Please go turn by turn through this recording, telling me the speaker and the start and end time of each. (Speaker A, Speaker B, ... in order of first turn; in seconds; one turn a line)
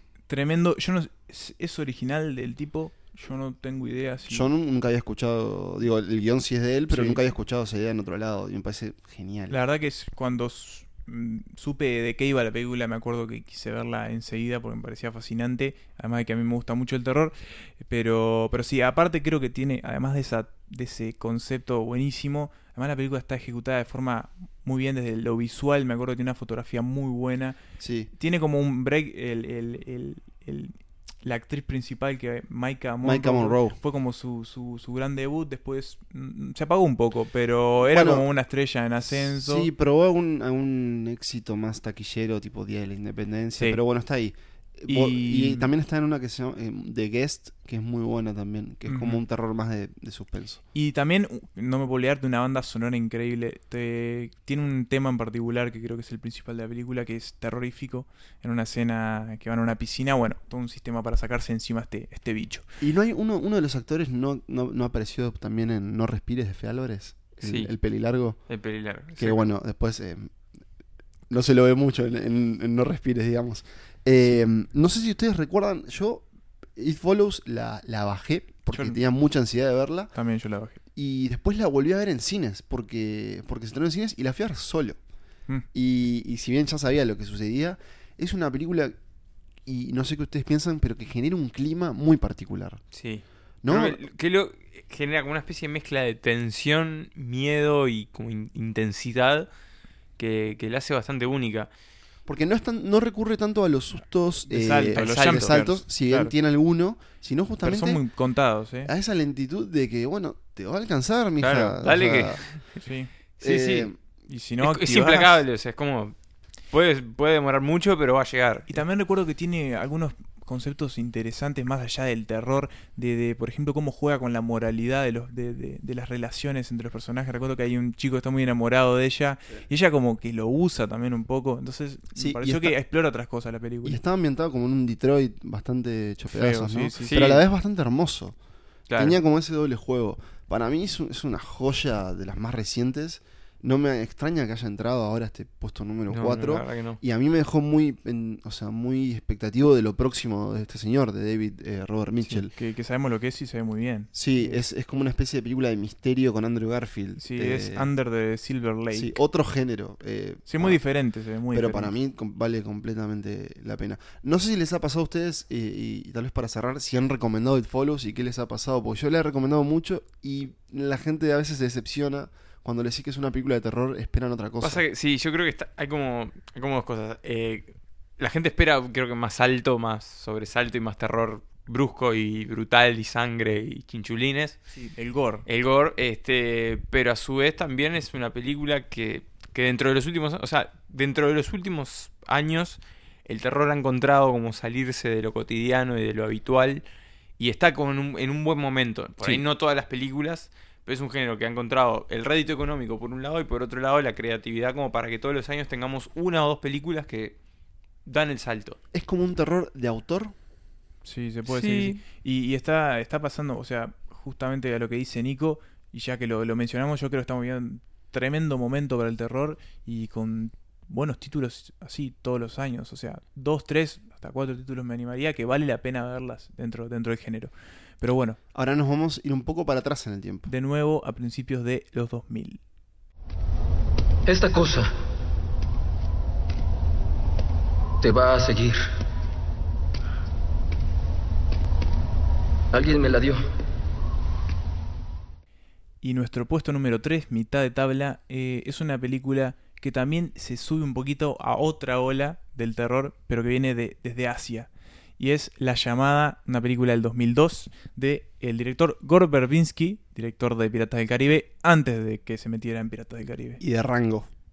Speaker A: 0.3-4.5
Speaker B: 4.3-9.6
Speaker A: 6.9-7.3
Speaker A: 9.5-27.6
Speaker B: 27.8-28.1
Speaker A: 28.2-39.7
Speaker B: 33.0-33.8
Speaker B: 37.8-38.3
Speaker B: 39.1-50.6
Speaker A: 44.9-45.7
Speaker A: 48.9-49.2
Speaker A: 50.7-62.6
Speaker B: 62.8-68.4
Speaker C: 67.4-67.7
Speaker C: 68.5-69.5
Speaker B: 69.2-70.3
Speaker B: 71.3-80.1
Speaker A: 78.7-79.0
Speaker A: 80.1-80.8
Speaker B: 81.0-85.0
Speaker B: 85.7-89.0
Speaker B: 89.7-92.8
Speaker C: 92.9-99.5
Speaker B: 93.6-94.0
Speaker C: 100.2-101.7
Speaker B: 102.3-108.0
Speaker A: 104.5-106.3
Speaker C: 104.9-105.5
Speaker A: 107.6-108.9
Speaker B: 108.8-112.4
Speaker C: 111.4-112.8
Speaker A: 112.8-113.1
Speaker C: 113.4-113.9
Speaker B: 113.4-114.0
Speaker A: 114.3-115.4
Speaker C: 114.6-116.1
Speaker C: 116.7-118.8
Speaker A: 118.7-134.0
Speaker B: 132.1-132.8
Speaker B: 133.8-138.3
Speaker A: 136.3-137.3
Speaker C: 137.0-137.4
Speaker C: 138.9-139.2
Speaker B: 138.9-152.5
Speaker C: 146.1-147.0
Speaker A: 152.4-154.6
Speaker B: 154.1-157.9
Speaker A: 157.2-159.2
Speaker B: 158.9-160.8
Speaker A: 160.5-161.9
Speaker B: 161.5-174.8
Speaker C: 174.6-184.6
Speaker A: 184.7-185.4
Speaker C: 185.4-196.8
Speaker C: 197.4-207.3
Speaker C: 208.0-208.8
Speaker B: 208.9-210.3
Speaker A: 211.0-228.4
Speaker C: 211.5-212.0
Speaker B: 228.5-230.5
Speaker A: 230.5-232.6
Speaker D: 234.2-234.9
Speaker D: 238.0-238.8
Speaker D: 242.7-243.4
Speaker A: 246.0-263.6
Speaker B: 263.6-264.3